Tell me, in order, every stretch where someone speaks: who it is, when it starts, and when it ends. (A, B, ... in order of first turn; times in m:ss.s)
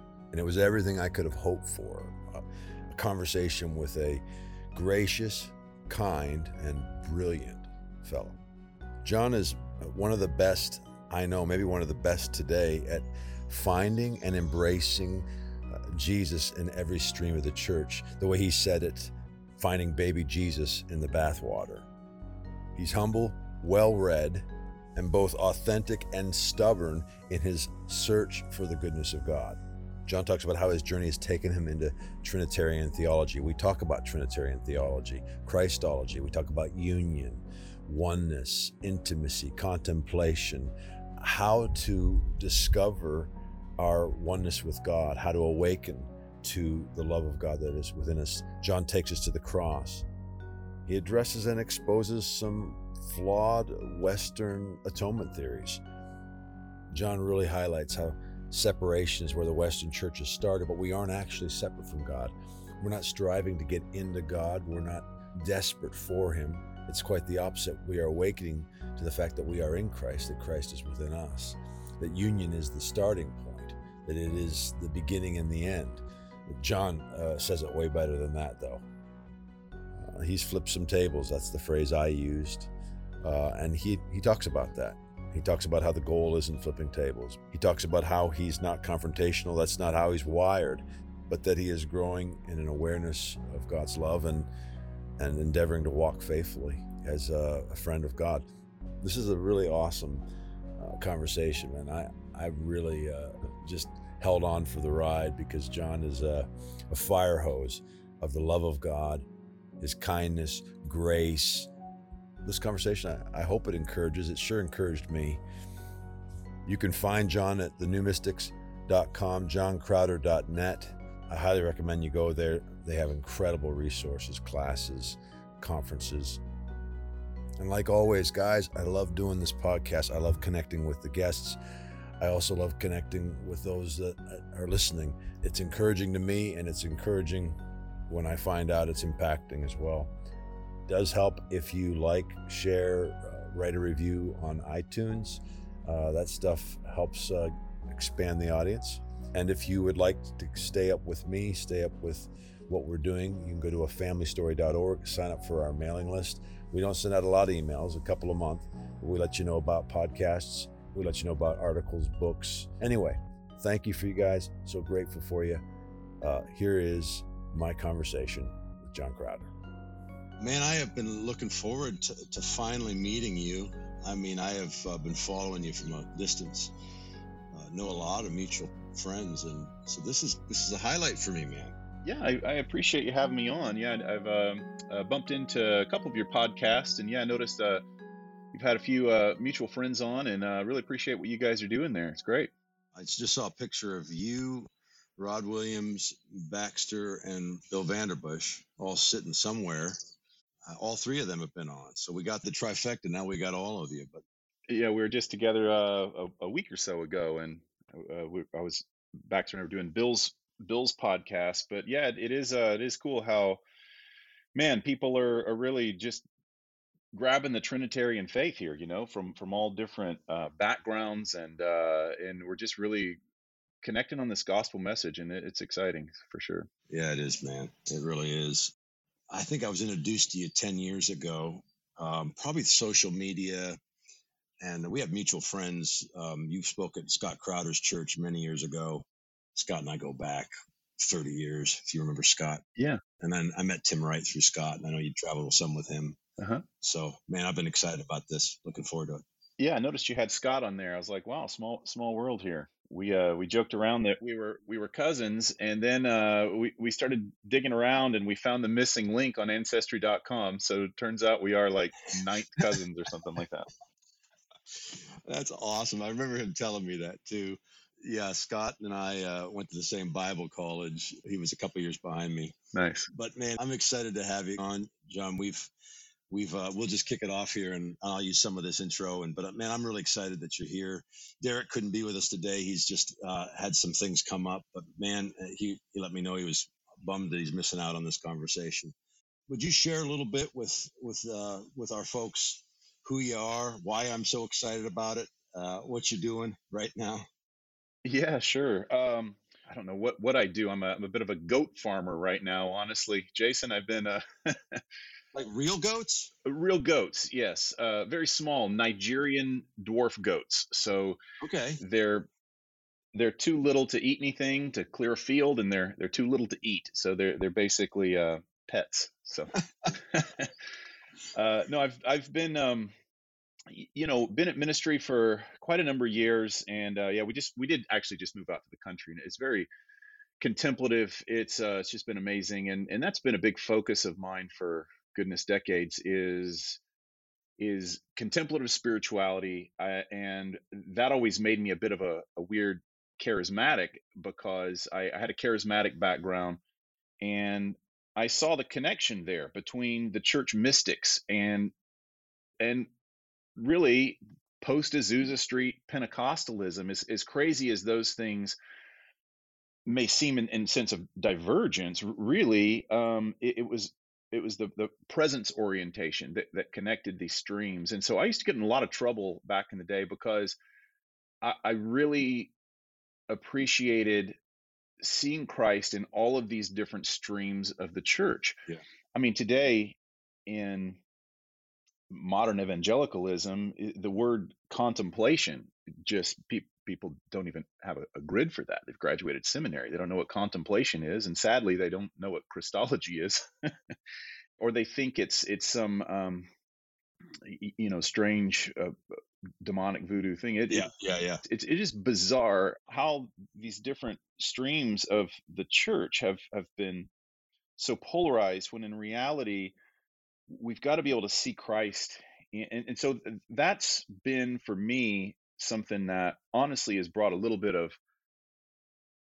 0:00.3-0:02.2 A
0:02.9-0:04.2 A
0:04.7-0:08.4 A
0:09.0-0:15.2 A
0:15.9-0:21.8 A
0:22.8-0:40.7 A
0:41.2-0:50.0 A
0:50.9-0:55.8 A
0:56.9-1:18.8 A
1:20.0-1:22.7 A
1:23.2-1:34.5 A
1:35.2-1:38.5 A
1:39.0-1:40.2 A
1:40.8-1:49.2 A
1:49.8-1:51.7 A
1:52.4-1:55.4 A
1:56.7-2:06.4 A
2:07.6-2:11.6 A
2:12.2-2:17.6 A
2:18.1-2:20.1 A
2:20.9-2:45.6 A
2:46.2-2:49.5 A
2:50.4-2:56.7 B
2:57.5-3:01.7 B
3:02.0-3:07.8 C
3:08.5-3:12.5 C
3:12.9-3:20.0 B
3:20.6-3:24.2 B
3:24.7-3:33.6 C
3:34.5-3:36.2 C
3:37.1-3:43.2 C
3:43.8-3:46.7 C
3:46.9-3:48.7 B
3:49.3-3:53.8 B
3:54.6-4:02.6 B
4:02.8-4:03.0 C
4:03.2-4:06.2 B
4:06.4-4:06.6 C
4:06.8-4:09.2 B
4:09.6-4:23.7 C
4:24.9-4:32.6 B
4:32.7-4:33.1 C
4:33.1-4:35.7 B
4:36.3-4:48.9 B
4:49.5-4:57.2 B
4:58.0-5:04.8 C
5:05.3-5:06.3 B
5:06.4-5:11.2 C
5:11.4-5:11.8 B
5:11.8-5:12.3 C
5:13.1-5:20.5 C
5:21.3-5:22.9 C
5:23.7-5:29.7 C
5:30.4-5:36.8 C
5:37.6-5:46.6 C
5:47.2-5:51.7 C
5:52.6-5:52.9 C
5:53.6-5:58.6 C
5:59.8-6:10.6 C
6:11.4-6:12.5 C
6:13.3-6:14.4 C
6:15.0-6:18.6 C
6:19.1-6:21.0 C
6:22.1-6:33.4 C
6:34.6-6:36.5 C
6:37.4-6:38.9 C
6:39.6-6:40.9 C
6:40.7-6:41.4 B
6:41.4-6:47.1 C
6:47.8-6:49.7 C
6:50.5-6:58.0 C